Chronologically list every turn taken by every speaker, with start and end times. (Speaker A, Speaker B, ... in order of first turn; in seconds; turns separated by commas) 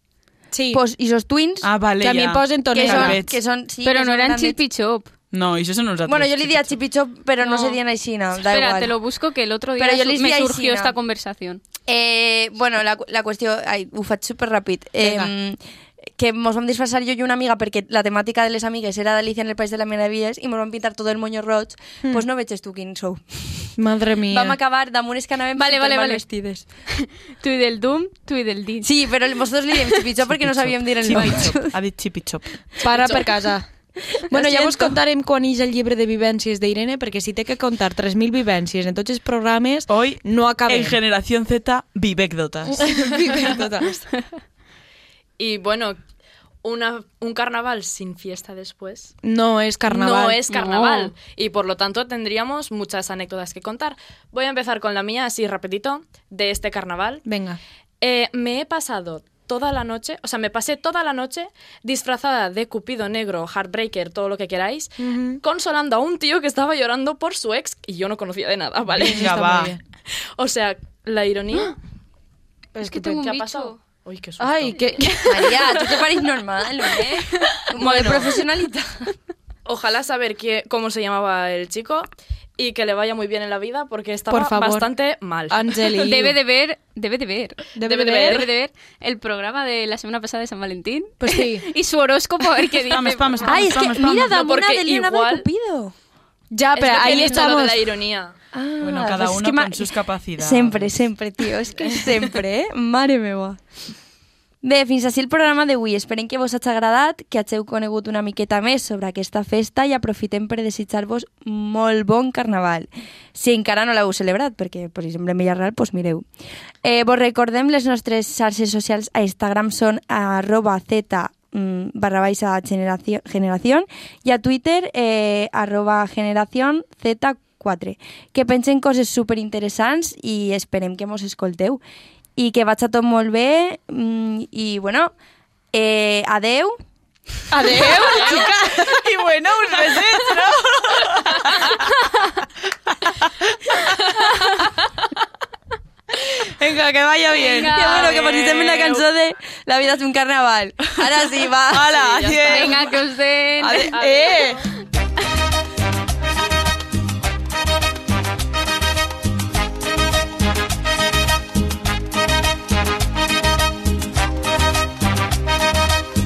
Speaker A: 0.5-0.8, Speaker B: 0.7-1.7, Speaker C: 1.6-3.4, Speaker A: 2.0-3.2, Speaker B: 2.7-4.6, Speaker D: 3.8-5.1, Speaker C: 5.3-6.8, Speaker B: 6.0-8.9, Speaker D: 7.4-7.8, Speaker D: 8.4-11.6, Speaker B: 9.8-10.9, Speaker B: 11.9-23.7, Speaker A: 15.0-15.3, Speaker A: 23.8-24.6, Speaker B: 24.3-26.6, Speaker D: 25.5-26.2, Speaker D: 26.9-28.9, Speaker B: 28.8-31.8, Speaker C: 30.3-32.4, Speaker B: 32.8-33.3, Speaker A: 32.8-33.7, Speaker B: 34.1-35.0, Speaker A: 34.3-41.0, Speaker C: 39.9-42.9, Speaker A: 42.8-44.0, Speaker E: 45.4-46.0, Speaker E: 46.6-49.1, Speaker A: 49.2-50.4, Speaker E: 49.9-57.2, Speaker D: 50.5-51.1, Speaker A: 57.2-57.6, Speaker E: 58.0-69.5, Speaker A: 65.0-65.4, Speaker A: 68.9-69.8, Speaker C: 69.1-69.7, Speaker E: 70.3-71.7, Speaker A: 72.7-73.3, Speaker D: 72.8-73.8, Speaker E: 73.2-74.8, Speaker A: 74.4-75.6, Speaker D: 75.0-75.9, Speaker B: 75.3-79.1, Speaker E: 77.8-78.4, Speaker E: 79.6-86.1, Speaker A: 84.3-84.9, Speaker A: 85.5-86.4, Speaker D: 86.0-93.5, Speaker A: 87.8-88.4, Speaker E: 87.8-88.5, Speaker A: 91.2-91.7, Speaker C: 92.8-94.4, Speaker B: 93.5-95.9, Speaker E: 94.3-95.5, Speaker A: 96.5-97.8, Speaker E: 96.7-98.3, Speaker B: 98.5-103.6, Speaker C: 98.8-101.0, Speaker B: 104.6-116.3, Speaker B: 116.8-131.8, Speaker B: 132.3-135.1, Speaker B: 135.7-136.8, Speaker A: 137.5-138.9, Speaker C: 138.0-141.8, Speaker E: 138.1-138.4, Speaker C: 146.6-149.0, Speaker D: 147.3-148.2, Speaker B: 147.6-152.0, Speaker C: 151.7-152.8, Speaker E: 151.8-152.8, Speaker D: 152.5-153.9, Speaker A: 153.6-154.6, Speaker E: 153.8-154.7